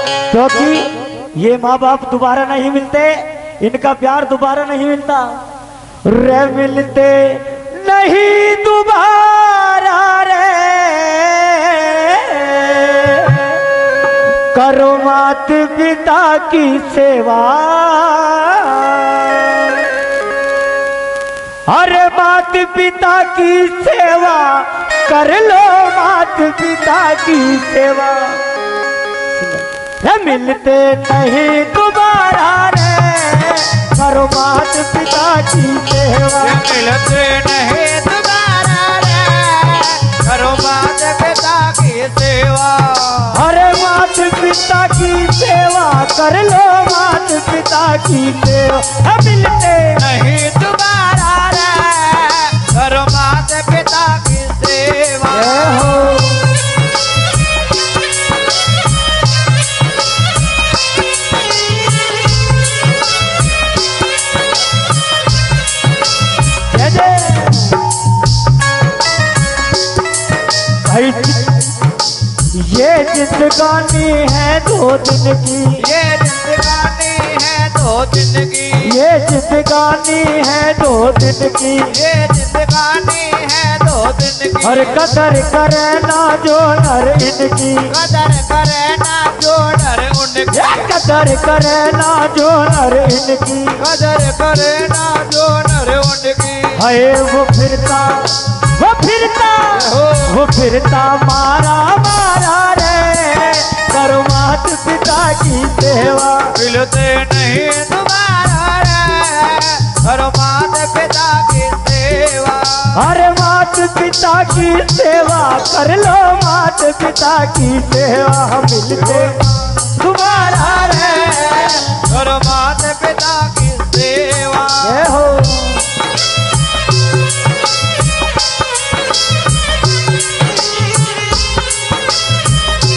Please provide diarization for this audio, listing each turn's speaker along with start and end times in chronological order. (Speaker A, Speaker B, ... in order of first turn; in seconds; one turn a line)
Speaker A: 0.2-5.4
Speaker A: 6.0-13.7
Speaker A: 14.5-19.9
Speaker A: 21.7-28.4
Speaker A: 29.3-36.6
Speaker B: 36.4-43.4
Speaker A: 43.3-50.0
Speaker B: 50.0-55.9
Speaker A: 55.3-56.5
Speaker A: 66.7-67.8
Speaker A: 70.8-71.8
Speaker A: 72.5-75.8
Speaker B: 75.8-79.0
Speaker A: 78.8-81.9
Speaker B: 81.9-85.0
Speaker A: 84.6-87.9
Speaker B: 87.9-90.9
Speaker A: 90.5-93.8
Speaker B: 93.8-96.8
Speaker A: 96.8-106.6
Speaker B: 99.8-100.4
Speaker B: 106.5-113.0
Speaker A: 112.9-122.0
Speaker B: 119.1-119.4
Speaker B: 121.9-125.0
Speaker A: 124.8-125.9